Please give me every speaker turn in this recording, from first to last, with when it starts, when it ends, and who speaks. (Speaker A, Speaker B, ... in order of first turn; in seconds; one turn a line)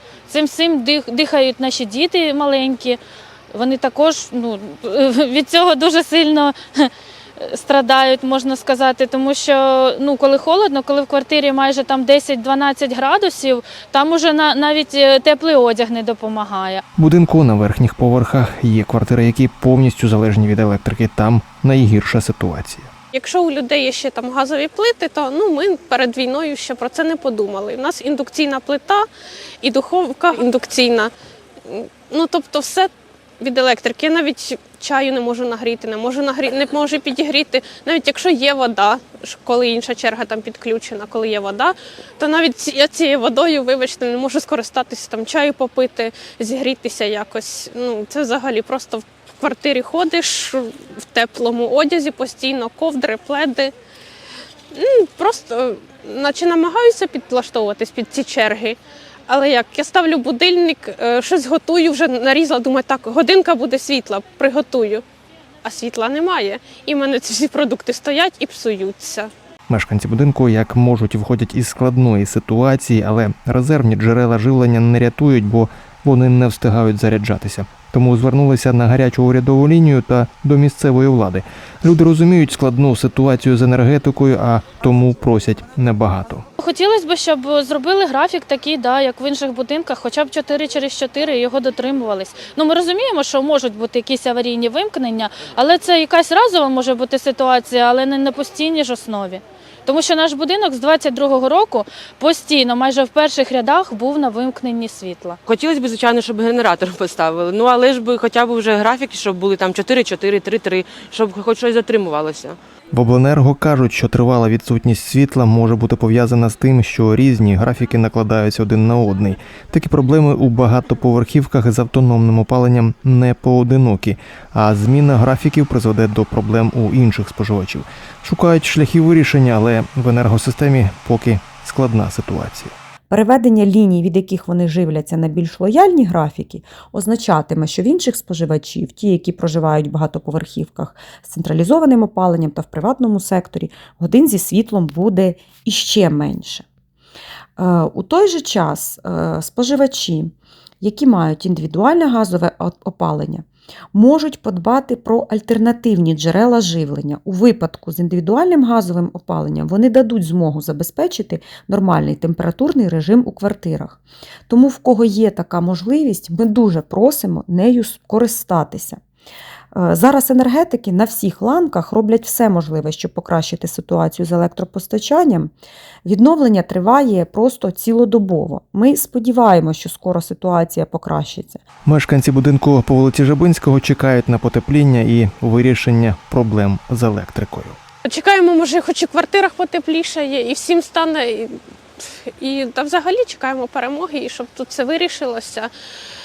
Speaker A: 0.3-3.0
Speaker A: 3.5-16.8
Speaker B: 17.0-22.9
Speaker C: 23.1-29.1
Speaker C: 29.6-31.1
Speaker C: 31.7-53.7
Speaker C: 54.7-65.0
Speaker C: 65.6-69.3
Speaker B: 69.7-86.5
Speaker A: 86.6-105.4
Speaker D: 105.5-112.6
Speaker B: 112.9-132.8
Speaker E: 133.1-146.7
Speaker E: 147.6-169.0
Speaker E: 169.7-175.5
Speaker E: 176.1-181.6
Speaker B: 181.8-187.8
Speaker C: 188.1-195.7